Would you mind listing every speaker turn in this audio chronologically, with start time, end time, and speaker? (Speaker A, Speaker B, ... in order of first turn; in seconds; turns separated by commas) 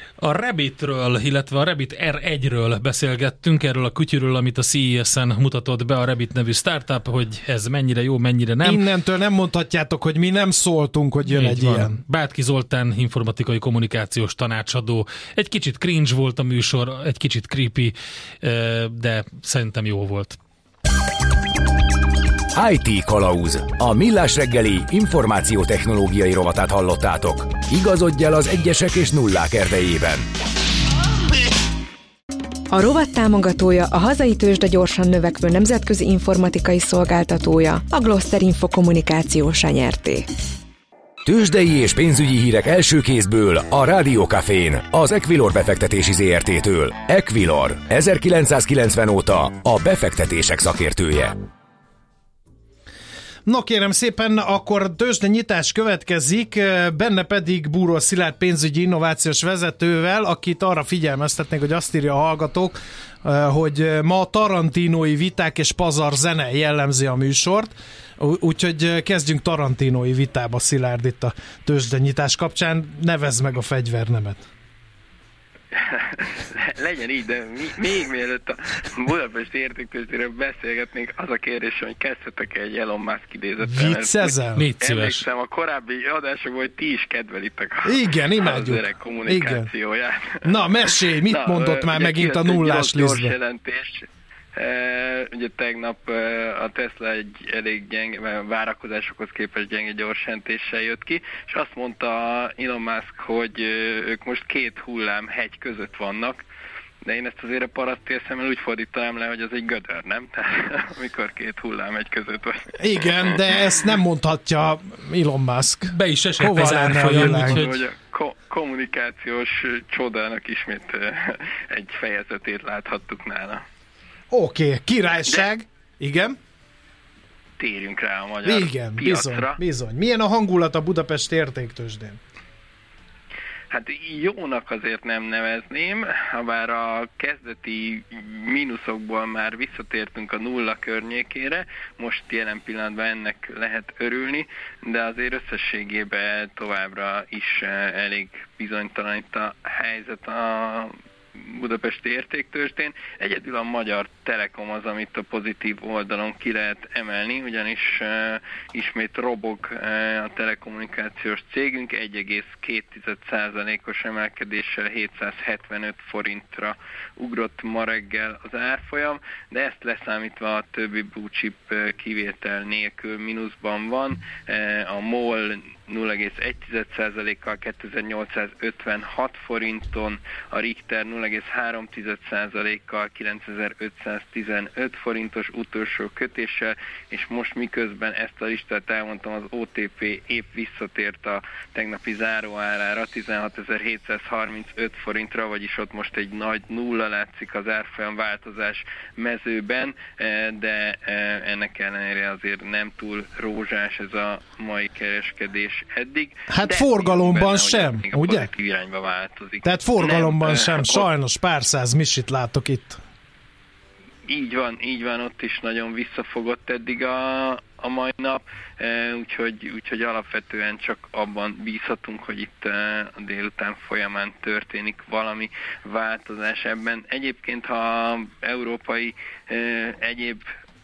Speaker A: 0.2-8.8, Speaker B: 8.6-12.0, Speaker A: 11.2-20.4, Speaker C: 22.5-30.3, Speaker D: 32.8-40.2, Speaker C: 41.2-51.4, Speaker B: 53.5-74.4, Speaker E: 75.7-90.4, Speaker B: 83.6-84.7, Speaker A: 84.5-85.2, Speaker B: 87.8-89.7, Speaker B: 90.4-93.3, Speaker E: 91.2-106.4, Speaker E: 107.0-112.7, Speaker B: 112.8-117.6, Speaker A: 115.9-117.8, Speaker E: 117.2-123.6, Speaker B: 124.3-126.4, Speaker E: 127.6-129.6, Speaker B: 128.4-132.2, Speaker E: 133.7-211.1, Speaker B: 206.5-208.5, Speaker B: 209.6-213.0, Speaker E: 214.3-230.4